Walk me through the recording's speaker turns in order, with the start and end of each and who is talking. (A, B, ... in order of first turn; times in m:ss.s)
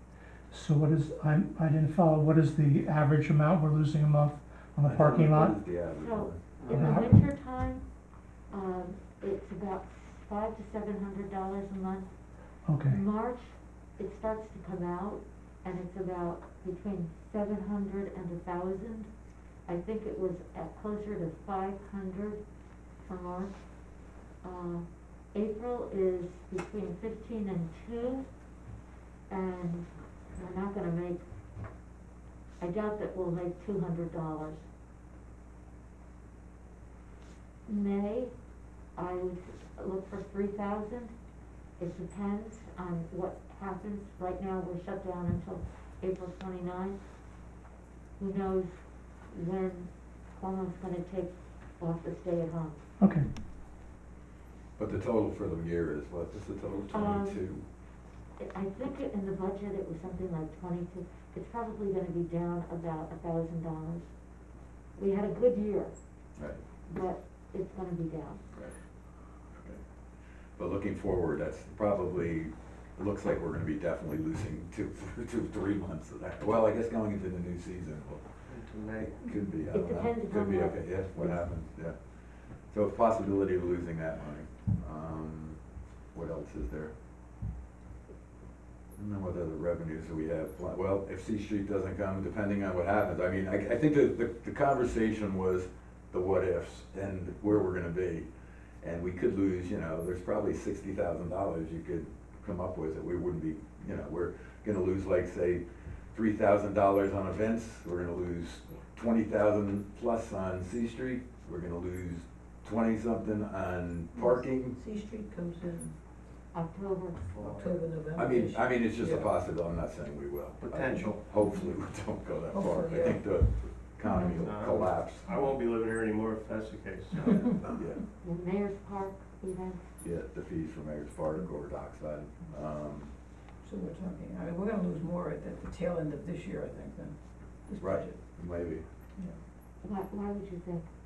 0:00.5-0:05.6 A
0:04.8-0:06.4 B
0:06.0-0:07.8 C
0:06.7-0:07.1 A
0:08.5-0:12.1 C
0:12.7-0:13.0 A
0:12.8-0:19.1 C
0:19.7-0:22.4 C
0:23.1-0:23.5 C
0:24.4-0:28.3 C
0:29.3-0:31.2 C
0:32.6-0:34.6 C
0:37.7-0:38.3 C
0:39.0-0:41.1 C
0:41.8-0:47.0 C
0:48.2-0:48.7 C
0:49.3-0:52.8 C
0:53.0-0:53.3 A
0:54.8-0:57.6 B
0:56.9-0:57.4 C
0:58.4-1:04.1 C
1:05.0-1:05.9 C
1:06.4-1:06.6 B
1:06.9-1:08.4 C
1:09.5-1:09.8 B
1:10.6-1:18.2 B
1:18.5-1:19.2 D
1:19.1-1:22.0 B
1:19.7-1:21.4 C
1:22.7-1:25.6 B
1:26.1-1:26.9 B
1:29.0-1:38.3 B
1:38.8-1:45.6 B
1:46.1-1:54.8 B
1:54.8-1:56.0 E
1:56.5-1:57.2 C
1:57.4-1:57.7 D
1:57.6-1:59.2 E
1:58.1-2:05.3 B
2:00.6-2:01.2 D
2:02.5-2:03.1 E
2:04.4-2:07.6 D
2:07.3-2:08.0 B
2:08.2-2:09.9 C
2:10.0-2:13.1 B
2:13.6-2:17.2 E
2:17.7-2:18.1 E
2:17.8-2:18.8 B
2:19.8-2:20.9 C